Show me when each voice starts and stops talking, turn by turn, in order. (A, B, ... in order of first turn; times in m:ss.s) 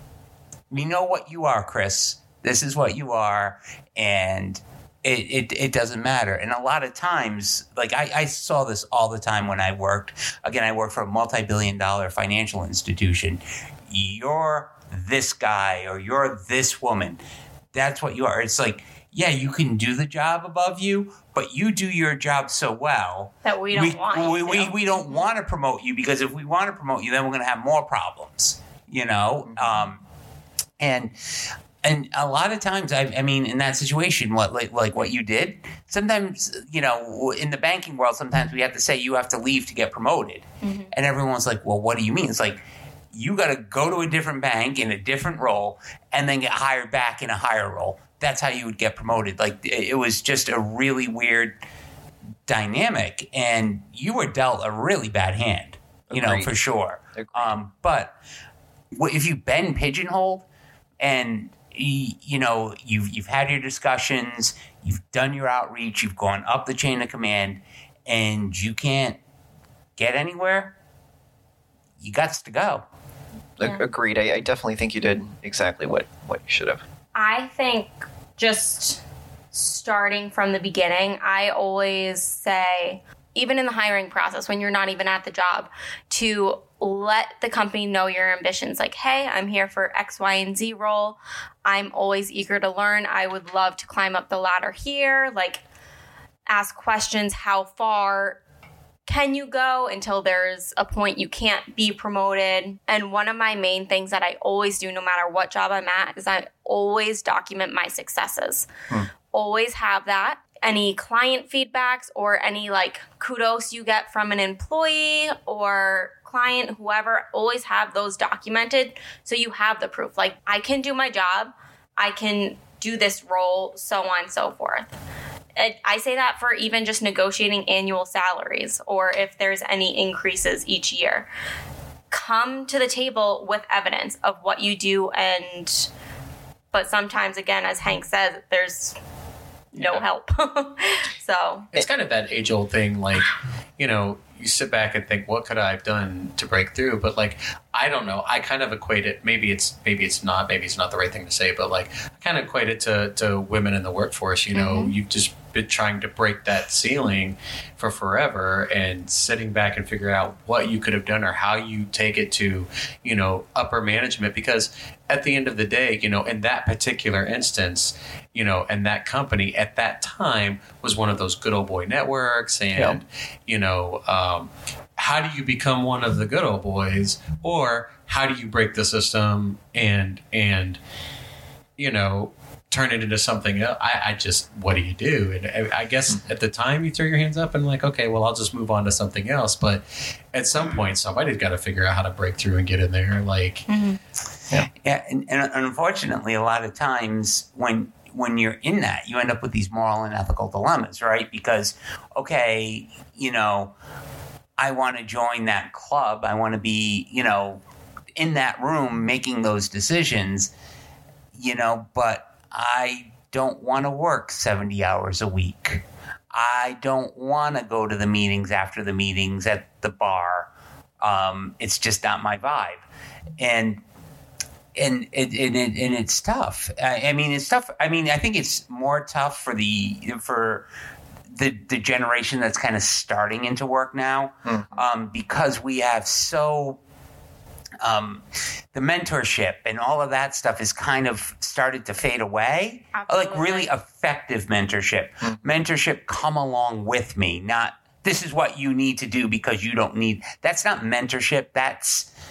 0:00.7-0:17.2 A
0:17.7-0:30.0 A
0:23.4-0:25.3 B
0:30.8-0:31.1 A
0:31.8-0:42.6 A
0:40.6-0:40.9 B
0:43.1-0:51.6 A
0:52.5-0:58.2 A
0:56.1-0:56.5 C
0:57.2-0:57.5 C
0:58.9-1:00.4 A
1:01.0-1:09.2 A
1:10.0-1:10.8 A
1:12.0-1:12.8 A
1:13.6-1:16.8 C
1:17.2-1:19.0 B
1:19.5-1:35.6 B
1:36.5-1:38.4 B
1:39.1-1:48.7 B
1:49.3-2:04.9 B
2:05.6-2:11.3 B
2:12.1-2:15.9 B
2:16.7-2:19.0 B
2:19.8-2:20.0 C
2:19.8-2:21.7 B
2:21.7-3:00.8 D
2:34.5-2:34.9 B
3:01.8-3:13.7 D
3:13.7-3:14.0 B
3:14.8-3:23.7 A
3:24.6-3:27.6 A
3:28.2-3:30.5 A
3:31.4-3:40.5 A
3:41.0-3:42.8 A
3:43.4-3:43.8 A
3:44.8-3:50.7 A
3:51.3-3:56.8 A
3:57.8-3:58.2 A
3:58.7-4:12.1 A
4:02.9-4:03.7 B